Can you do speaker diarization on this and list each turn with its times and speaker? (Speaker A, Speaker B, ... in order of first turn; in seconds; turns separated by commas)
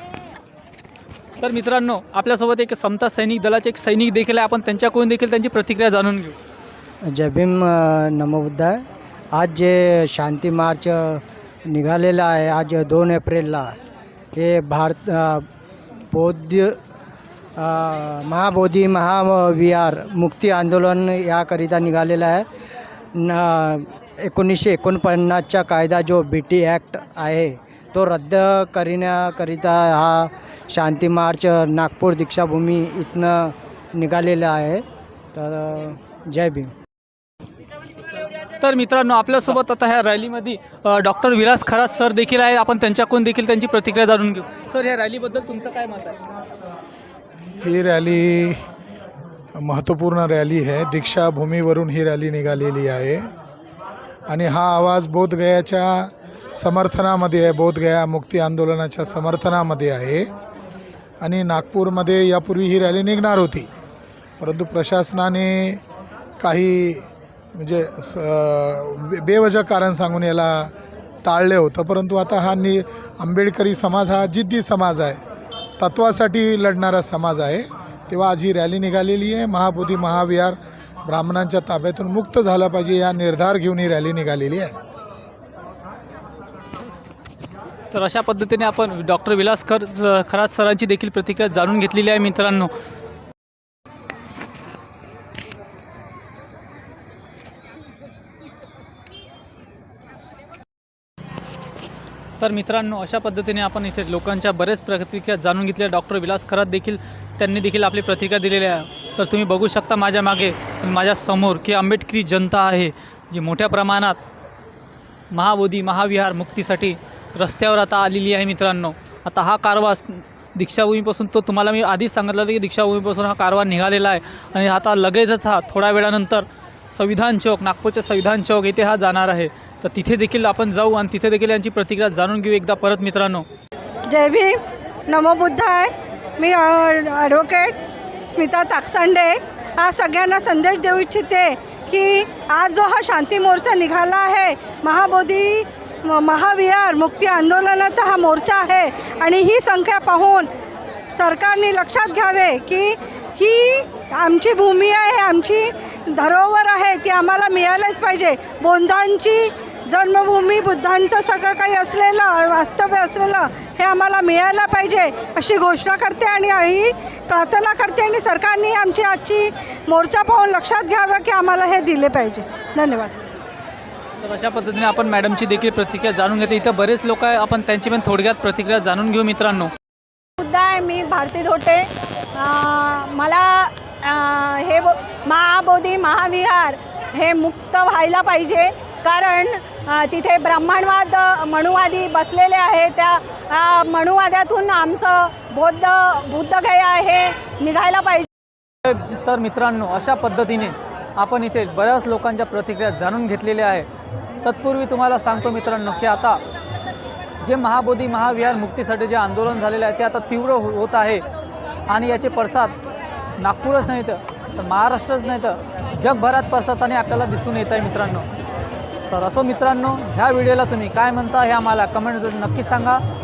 Speaker A: 1.4-6.3, Speaker B: 7.0-13.7, Speaker B: 14.3-15.5, Speaker B: 16.1-16.8, Speaker B: 17.6-22.5, Speaker B: 23.1-36.7, Speaker A: 38.6-46.2, Speaker C: 47.6-48.6, Speaker C: 49.5-53.2, Speaker C: 54.3-60.3, Speaker C: 61.2-63.7, Speaker C: 64.4-65.8, Speaker C: 66.4-67.0, Speaker C: 67.5-70.7, Speaker C: 71.2-75.2, Speaker C: 75.8-84.7, Speaker A: 87.9-92.7, Speaker A: 102.4-114.2, Speaker A: 115.3-133.4, Speaker D: 134.1-134.6, Speaker D: 135.1-137.7, Speaker D: 138.3-150.5, Speaker D: 151.1-173.2, Speaker A: 174.2-179.7, Speaker E: 180.4-198.3, Speaker A: 198.8-203.9, Speaker A: 204.4-206.4, Speaker A: 207.4-211.2, Speaker A: 211.9-212.8, Speaker A: 213.4-218.2, Speaker A: 219.1-223.0